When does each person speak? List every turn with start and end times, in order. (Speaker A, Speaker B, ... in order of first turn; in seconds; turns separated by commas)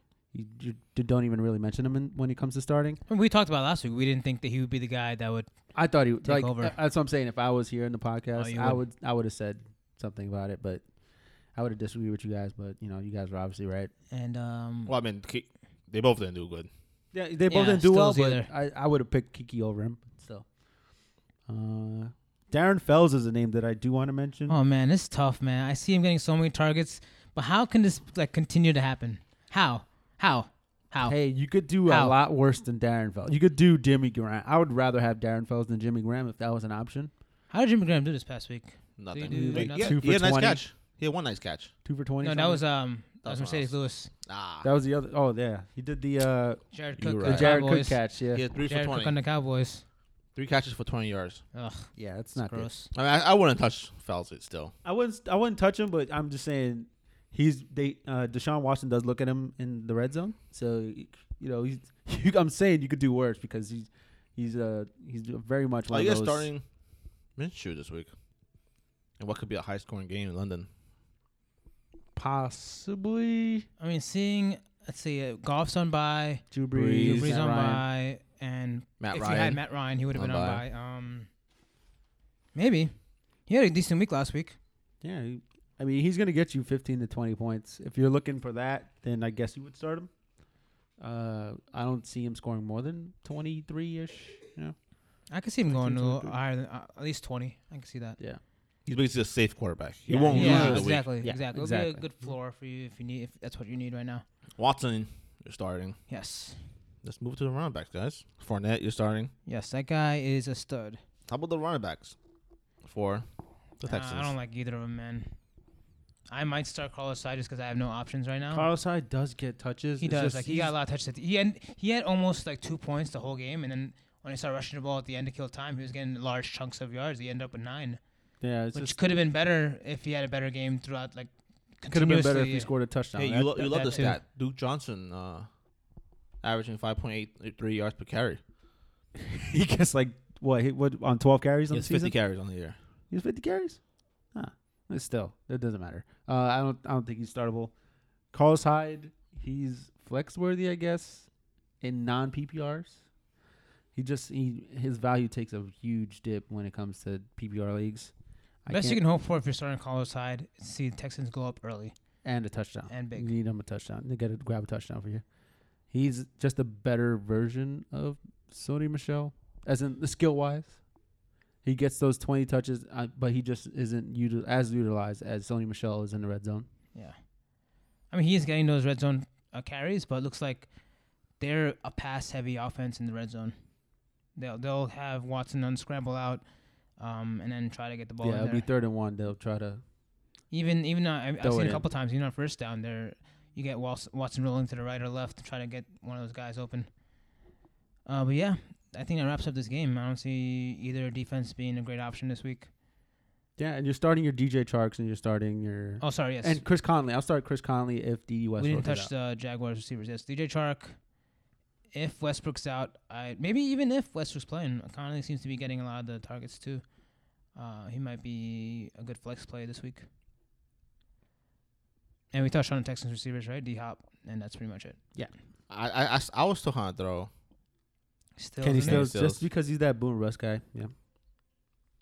Speaker A: 0.3-3.0, Speaker B: 3.1-5.5, Speaker A: 5.8-10.8, Speaker B: 6.2-6.8, Speaker B: 8.3-8.8, Speaker A: 11.5-13.9, Speaker B: 14.1-14.9, Speaker C: 14.9-16.7, Speaker A: 17.1-20.5, Speaker B: 17.5-18.5, Speaker A: 21.5-24.6, Speaker B: 24.5-31.2, Speaker A: 31.1-37.1, Speaker B: 31.9-32.2, Speaker B: 37.5-40.0, Speaker C: 39.0-41.7, Speaker A: 39.3-40.6, Speaker A: 41.9-42.6, Speaker B: 42.2-44.1, Speaker C: 43.2-44.7, Speaker A: 44.6-48.4, Speaker B: 46.7-48.0, Speaker C: 47.2-47.5, Speaker C: 48.3-49.2, Speaker B: 48.6-49.8, Speaker C: 50.4-51.4, Speaker B: 51.5-52.9, Speaker A: 52.0-52.7, Speaker C: 52.9-54.7, Speaker A: 54.8-66.5, Speaker C: 65.9-66.6, Speaker C: 67.4-68.1, Speaker C: 69.2-70.7, Speaker A: 72.2-73.7, Speaker B: 73.8-81.3, Speaker A: 76.5-77.8, Speaker C: 76.7-77.4, Speaker C: 79.0-80.7, Speaker B: 82.5-82.9, Speaker B: 83.5-84.6, Speaker A: 85.0-90.1, Speaker A: 91.0-94.8, Speaker B: 95.3-98.2, Speaker A: 95.7-96.4, Speaker C: 98.9-101.1, Speaker A: 100.1-102.0, Speaker B: 100.3-104.2, Speaker C: 104.6-106.0, Speaker B: 106.1-106.6, Speaker C: 107.0-109.3, Speaker B: 109.5-111.0, Speaker C: 111.3-112.2, Speaker C: 112.8-113.3, Speaker C: 113.8-114.3, Speaker B: 113.8-115.3, Speaker B: 116.3-118.7, Speaker A: 118.5-120.8, Speaker B: 120.0-128.0, Speaker A: 128.4-129.0, Speaker B: 128.7-132.7, Speaker A: 131.9-134.2, Speaker C: 133.2-135.5, Speaker B: 133.7-134.1, Speaker C: 136.4-138.4, Speaker A: 139.2-142.2, Speaker C: 141.7-142.8, Speaker A: 143.1-143.8, Speaker A: 144.3-147.7, Speaker A: 148.3-151.3, Speaker A: 151.8-153.0, Speaker A: 153.9-158.1, Speaker A: 158.7-159.0, Speaker B: 158.7-161.9, Speaker A: 162.2-165.2, Speaker B: 162.9-163.3, Speaker A: 165.9-170.8, Speaker A: 171.6-176.7, Speaker B: 178.1-180.7, Speaker B: 181.4-183.6, Speaker B: 184.3-188.7, Speaker A: 188.2-189.8, Speaker B: 190.5-196.9, Speaker A: 191.4-191.8, Speaker B: 198.1-202.7, Speaker A: 203.6-209.1, Speaker B: 206.0-206.6, Speaker B: 208.6-211.0, Speaker B: 211.9-216.8, Speaker B: 217.5-220.1, Speaker B: 222.3-225.0, Speaker C: 225.7-227.3, Speaker B: 228.4-229.1, Speaker A: 228.6-230.9, Speaker C: 228.8-229.4